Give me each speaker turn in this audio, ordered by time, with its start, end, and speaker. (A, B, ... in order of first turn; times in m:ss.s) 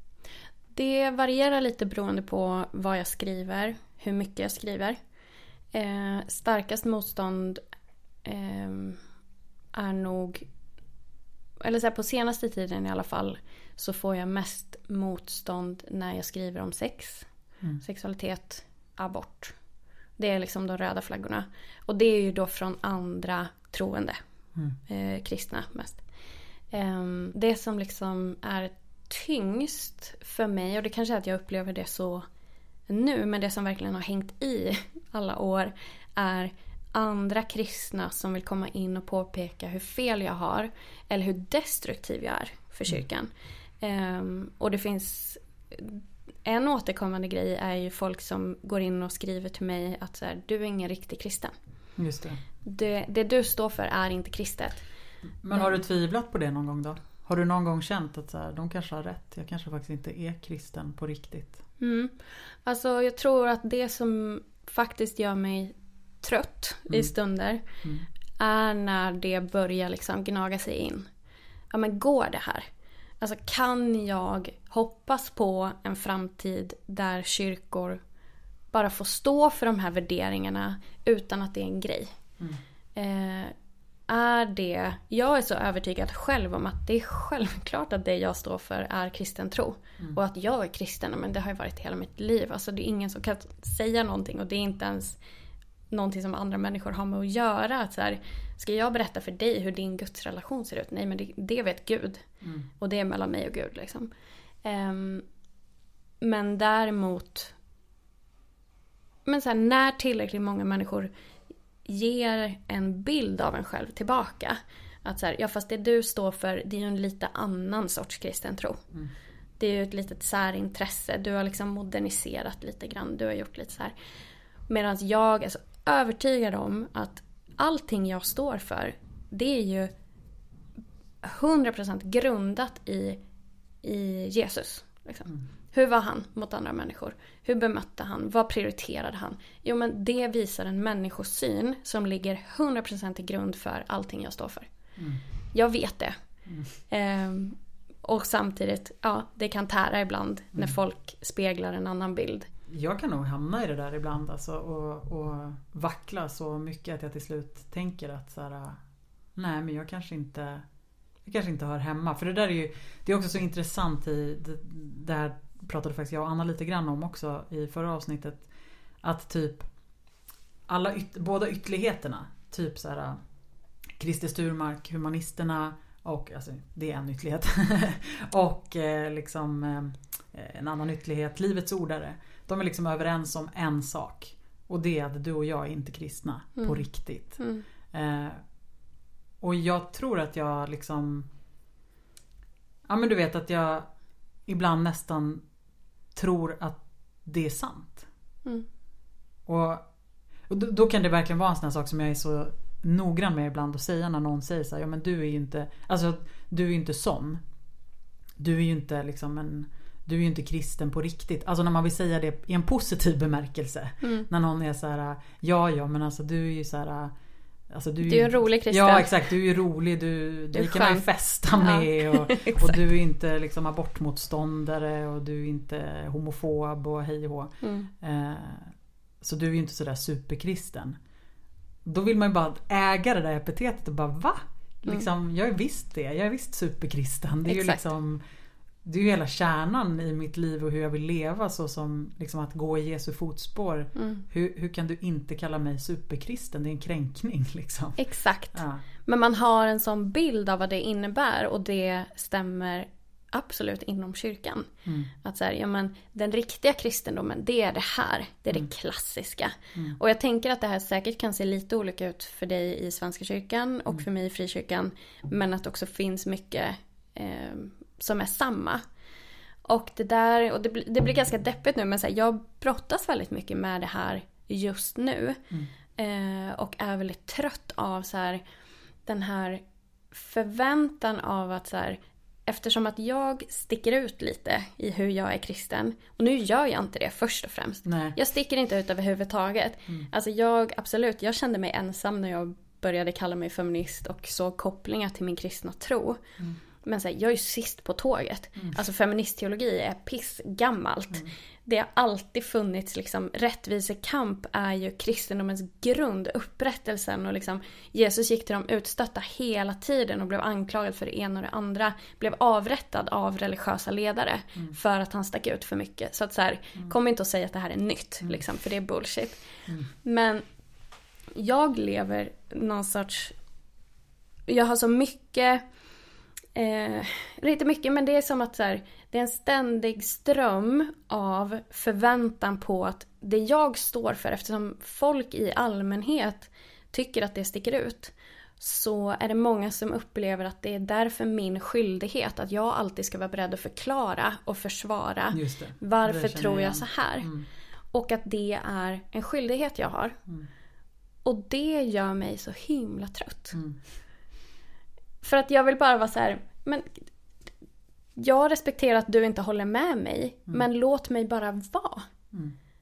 0:00.7-0:05.0 A
0:05.7-0:07.6 A
0:08.2-0:09.0 A
0:09.7-0:10.4 A
0:11.6-0:17.3 A
0:17.8-0:19.5 A
0:20.2-0:24.2 A
0:24.8-0:26.0 A
0:26.7-0:32.2 A
0:32.9-0:43.3 A
0:43.8-0:51.5 A
0:52.0-0:52.4 B
0:52.6-0:54.9 A
0:55.4-1:01.6 B
1:01.8-1:07.6 A
1:08.4-1:11.1 A
1:11.7-1:12.6 A
1:13.2-1:18.0 A
1:18.7-1:22.2 A
1:23.0-1:23.5 A
1:24.1-1:35.2 A
1:35.9-1:42.3 A
1:42.4-1:42.7 B
1:42.8-1:44.1 A
1:44.6-1:45.2 A
1:46.2-1:47.5 A
1:49.2-1:51.1 A
1:51.8-1:58.8 A
1:59.6-2:03.9 A
2:04.7-2:09.9 A
2:11.2-2:13.2 A
2:13.8-2:24.7 A
2:25.0-2:25.2 B
2:25.5-2:26.1 A
2:26.9-2:32.5 A
2:32.7-2:38.8 B
2:39.4-2:40.6 B
2:41.2-2:48.5 B
2:49.0-2:49.6 B
2:50.7-2:53.2 B
2:54.0-3:07.4 B
3:06.6-3:07.7 A
3:07.9-3:08.4 B
3:09.4-3:11.3 B
3:12.9-3:13.9 B
3:14.5-3:15.4 B
3:16.1-3:18.1 B
3:19.5-3:19.9 B
3:20.5-3:27.4 B
3:28.4-3:37.1 B
3:34.0-3:34.3 A
3:37.7-3:51.0 B
3:38.0-3:39.1 A
3:40.5-3:42.8 A
3:47.6-3:47.9 A
3:51.8-3:58.2 B
3:57.5-3:57.8 A
3:58.8-4:08.0 B
4:04.0-4:04.2 A
4:08.0-4:14.7 A
4:08.5-4:08.8 B
4:14.8-4:15.1 B
4:15.2-4:28.8 A
4:29.6-4:35.4 A
4:36.0-4:38.4 A
4:39.0-4:56.2 A
4:47.8-4:48.2 B
4:56.8-5:20.4 A
5:21.3-5:23.3 A
5:24.5-5:25.6 A
5:26.5-5:47.3 A
5:45.3-5:47.5 B
5:47.9-5:50.2 A
5:51.2-5:53.6 A
5:53.5-5:53.8 B
5:55.2-5:57.0 A
5:58.2-6:02.1 A